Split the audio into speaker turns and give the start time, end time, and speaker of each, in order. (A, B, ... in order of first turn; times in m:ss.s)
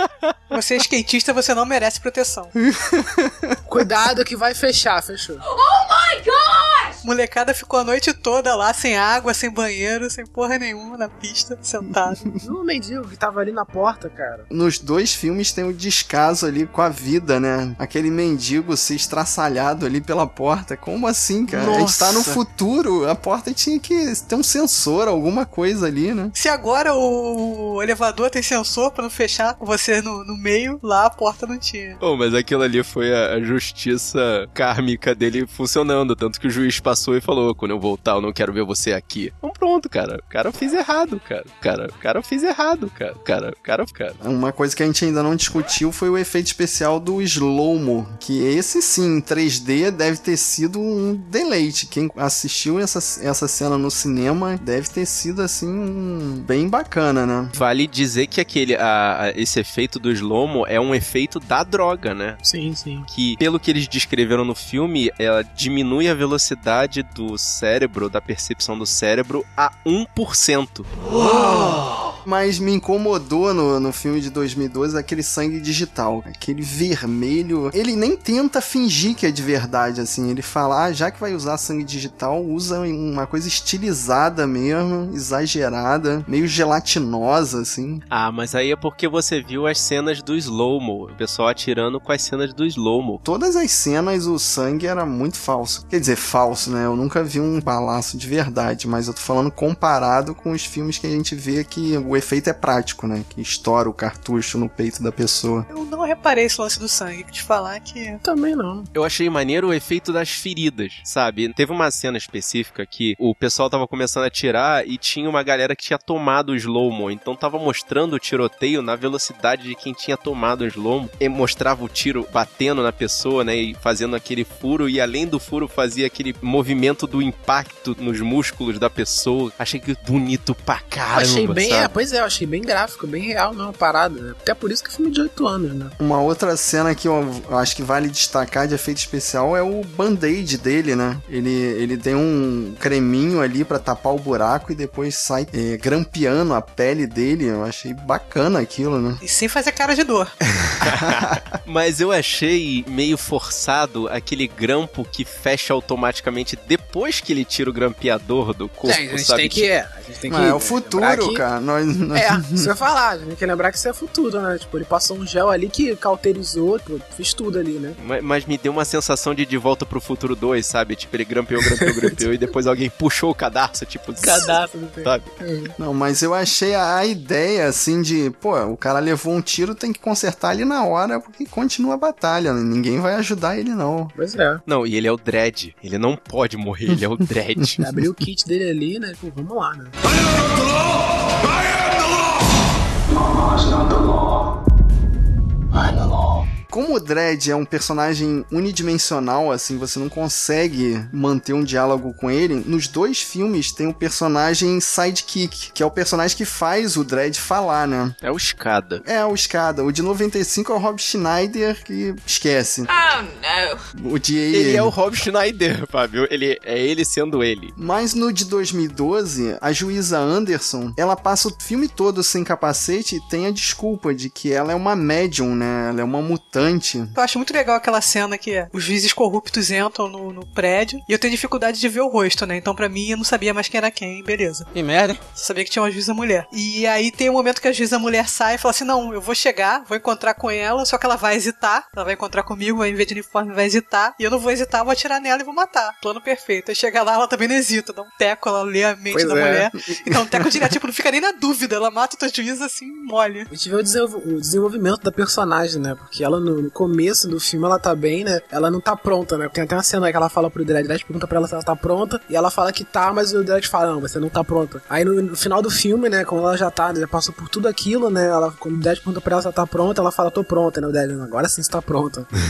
0:00.5-0:02.5 A
0:02.6-0:03.5 B
0:03.7-0:05.4 C
0:05.5-0:07.0 D
0:07.0-0:12.2 A
0:12.4-0:14.5 C
0:14.5-0:26.3 B
0:21.5-0:22.4 C
0:26.3-0:32.0 A
0:32.0-0:44.2 E
0:44.2-0:57.6 B
0:57.6-1:02.4 E
1:02.4-1:03.1 C
1:03.1-1:10.9 E
1:11.2-1:28.0 B
1:28.1-1:33.2 E
1:33.2-1:45.7 B
1:45.7-1:48.2 A
1:48.2-1:48.9 C
1:48.9-2:11.9 E
2:11.1-2:16.0 C
2:16.0-2:29.2 B
2:29.2-2:30.3 A
2:30.5-2:39.7 E
2:30.8-2:31.4 B
2:38.8-2:41.4 C
2:40.3-2:42.7 B
2:42.1-2:48.0 C
2:48.0-2:55.3 E
2:54.2-2:55.7 C
2:55.8-3:04.1 B
3:04.2-3:04.6 C
3:04.7-3:07.8 E
3:07.8-3:10.0 C
3:16.7-3:28.2 B
3:28.2-3:29.0 E
3:29.0-3:32.9 B
3:32.9-3:33.8 D
3:34.0-3:34.9 B
3:34.5-3:37.8 E
3:37.8-3:47.2 B
3:47.2-3:54.7 A
3:54.8-3:55.2 B
3:55.4-4:13.5 A
4:09.1-4:09.7 C
4:10.0-4:10.4 B
4:13.5-4:32.3 C